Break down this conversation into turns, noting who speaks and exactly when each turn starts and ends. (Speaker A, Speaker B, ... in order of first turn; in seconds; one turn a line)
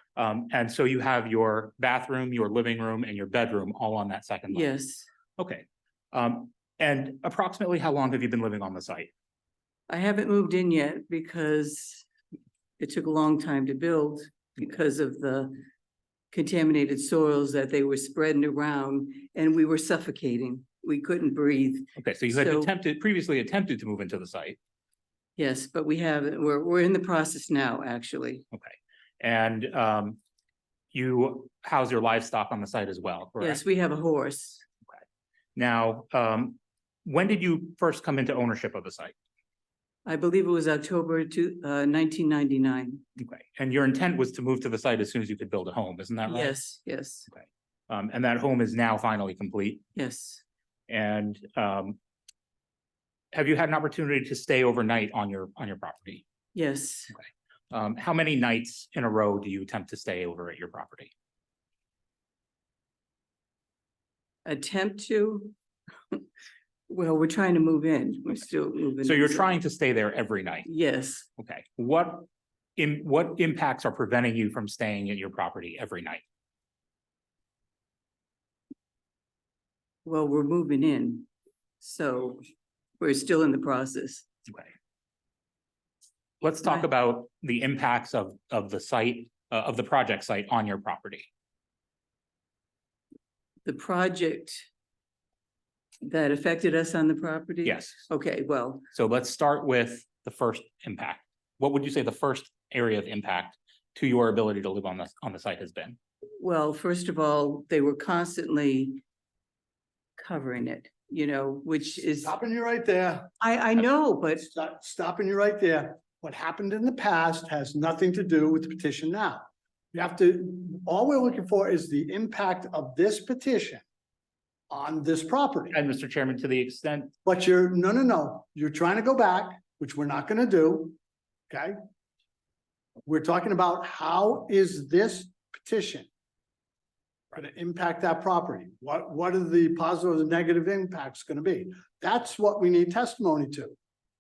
Speaker A: 0.2-4.7
Speaker B: 4.5-5.1
Speaker A: 5.4-9.1
Speaker B: 9.9-12.1
Speaker B: 12.8-15.7
Speaker B: 16.3-22.7
Speaker A: 22.0-24.6
Speaker B: 25.4-28.4
Speaker A: 28.5-30.2
Speaker A: 30.9-33.6
Speaker B: 33.4-34.6
Speaker A: 35.6-39.1
Speaker B: 40.0-43.0
Speaker A: 43.2-46.5
Speaker B: 46.2-47.3
Speaker A: 47.3-49.8
Speaker B: 49.9-50.4
Speaker A: 50.9-52.0
Speaker A: 53.3-56.2
Speaker B: 56.5-57.2
Speaker A: 57.7-61.1
Speaker B: 64.4-65.5
Speaker B: 66.9-69.6
Speaker A: 69.0-70.7
Speaker B: 70.7-71.3
Speaker A: 71.4-72.2
Speaker A: 72.8-76.2
Speaker B: 80.0-81.3
Speaker B: 81.8-82.5
Speaker B: 83.0-84.3
Speaker A: 86.4-91.3
Speaker B: 93.7-94.7
Speaker B: 96.0-98.8
Speaker A: 97.7-98.1
Speaker A: 98.9-106.0
Speaker B: 106.4-109.0
Speaker B: 110.2-112.3
Speaker C: 112.2-113.3
Speaker B: 113.4-114.5
Speaker C: 114.4-123.8
Speaker C: 124.7-125.8
Speaker A: 125.7-127.1
Speaker C: 127.3-131.0
Speaker C: 131.5-131.8
Speaker C: 133.1-136.1
Speaker C: 137.3-143.8